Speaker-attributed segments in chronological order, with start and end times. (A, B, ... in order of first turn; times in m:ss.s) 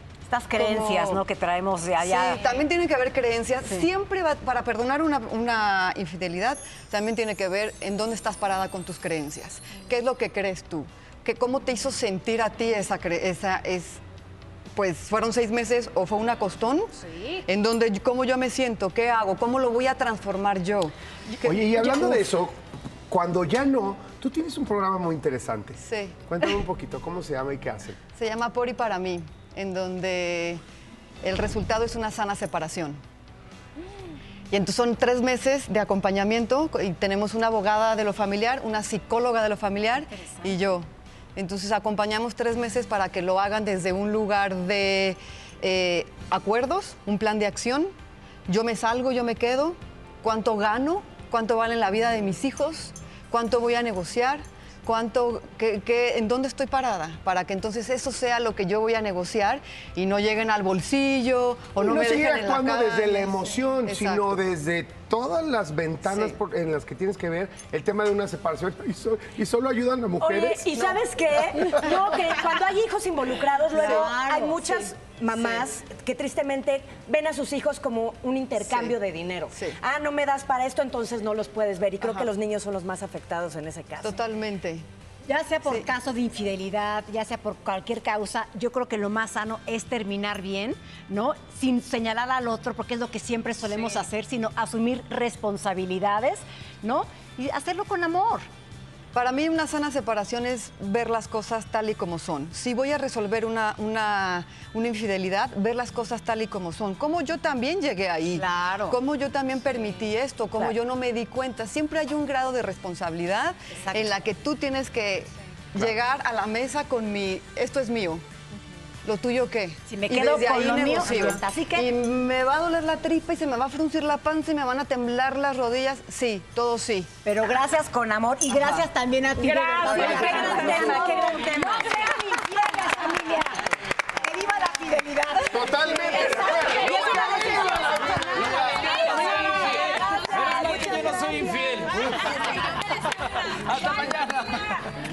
0:00.3-0:02.6 A
0:00.5-0:01.2 B
0:02.0-0:14.0 B
0:02.4-0:02.7 C
0:14.8-0:16.9 B
0:17.0-0:17.4 C
0:17.5-0:22.3 B
0:21.4-0:22.6 D
0:23.1-0:28.0 D
0:25.8-0:26.6 B
0:28.1-0:30.6 B
0:31.2-0:33.0 B
0:34.5-0:47.9 B
0:48.5-1:04.4 B
1:01.8-1:11.0 D
1:06.1-1:06.4 B
1:10.2-1:24.2 A
1:13.7-1:14.8 B
1:18.6-1:18.9 B
1:24.0-1:24.8 B
1:25.3-1:38.5 A
1:39.1-1:58.2 B
1:48.3-1:49.0 A
1:53.8-1:54.1 A
1:59.0-2:07.1 B
1:59.9-2:01.9 A
2:07.2-2:13.6 A
2:09.4-2:11.8 C
2:09.9-2:10.7 B
2:10.1-2:10.9 D
2:14.2-2:21.0 A
2:15.5-2:18.9 D
2:18.9-2:22.8 E
2:23.5-2:24.8 E